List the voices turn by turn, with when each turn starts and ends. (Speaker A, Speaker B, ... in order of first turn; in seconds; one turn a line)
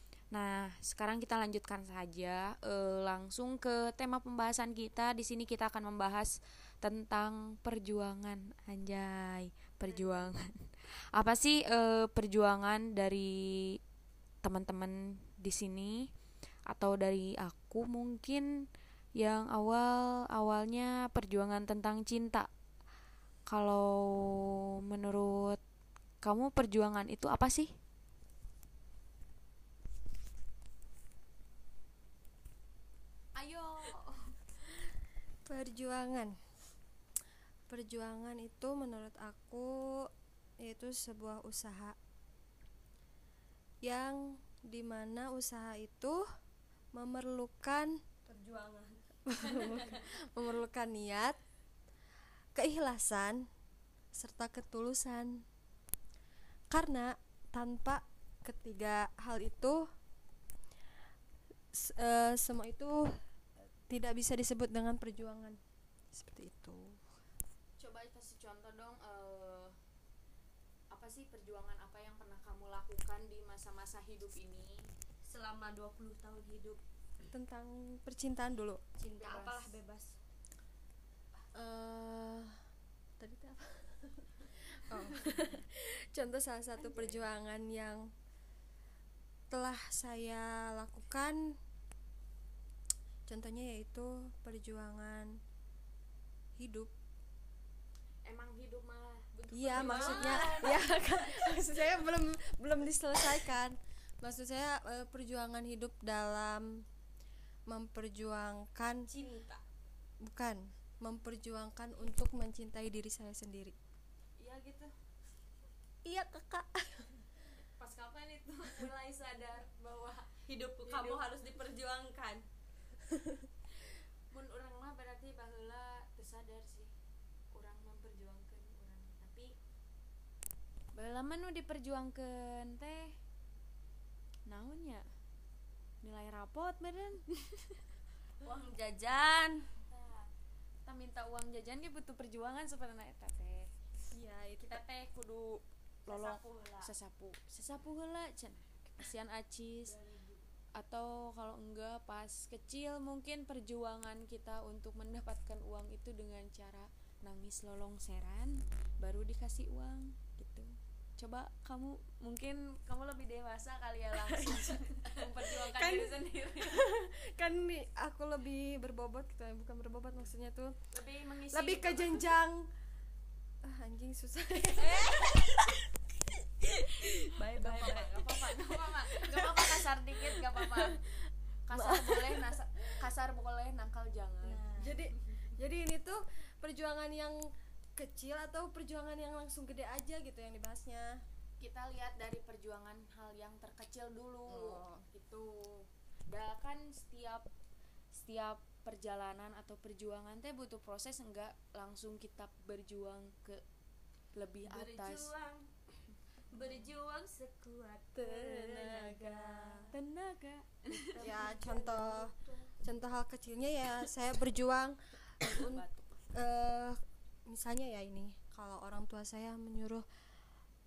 Speaker A: 0.3-13.8
Speaker A: 14.4-16.1
Speaker A: 16.7-18.4
Speaker A: 19.2-22.5
Speaker A: 23.5-24.0
Speaker A: 24.9-25.6
Speaker A: 26.2-27.7
Speaker A: 33.4-34.2
Speaker B: 35.5-36.3
Speaker B: 37.7-40.1
Speaker B: 40.6-42.0
Speaker B: 43.8-46.2
Speaker B: 46.9-48.0
Speaker C: 48.3-50.0
Speaker B: 49.3-51.4
Speaker B: 52.5-53.5
Speaker B: 54.1-55.4
Speaker B: 56.7-59.9
Speaker B: 61.7-63.1
Speaker B: 63.9-65.6
Speaker B: 66.1-67.1
Speaker A: 67.8-69.7
Speaker A: 70.9-74.9
Speaker C: 75.2-76.8
Speaker B: 77.2-78.8
Speaker C: 79.0-80.2
Speaker A: 79.1-79.7
Speaker B: 81.5-82.6
Speaker B: 83.2-88.1
Speaker B: 89.5-91.6
Speaker B: 93.2-95.4
Speaker B: 96.6-96.9
Speaker A: 98.2-101.7
Speaker B: 99.5-106.8
Speaker C: 99.7-100.8
Speaker B: 107.7-109.1
Speaker C: 109.1-109.6
Speaker B: 110.2-113.8
Speaker A: 114.4-114.9
Speaker C: 116.0-117.1
Speaker A: 117.6-120.3
Speaker C: 120.5-122.4
Speaker A: 120.8-121.3
Speaker A: 124.3-126.9
Speaker A: 127.5-129.5
Speaker A: 130.9-133.1
Speaker A: 134.5-135.0
Speaker A: 136.0-137.3
Speaker C: 138.4-139.6
Speaker A: 139.8-140.3
Speaker A: 140.8-143.7
Speaker B: 144.1-144.8
Speaker A: 144.6-166.9
Speaker C: 146.1-146.9
Speaker C: 149.8-150.1
Speaker B: 164.4-170.8
Speaker A: 170.9-172.3
Speaker B: 171.5-172.7
Speaker B: 173.6-175.6
Speaker C: 174.8-175.3
Speaker A: 174.9-175.3
Speaker B: 176.6-177.4
Speaker A: 177.2-181.0
Speaker C: 177.4-178.5
Speaker B: 179.2-181.1
Speaker A: 181.7-184.6
Speaker B: 181.7-182.5
Speaker C: 184.4-185.0
Speaker B: 184.8-191.2
Speaker A: 191.6-197.5
Speaker B: 194.5-195.0
Speaker A: 198.1-203.6
Speaker A: 204.3-205.3
Speaker C: 204.6-205.7
Speaker C: 206.5-212.6
Speaker B: 208.2-209.8
Speaker A: 210.0-210.3
Speaker A: 211.2-211.6
Speaker B: 211.2-220.0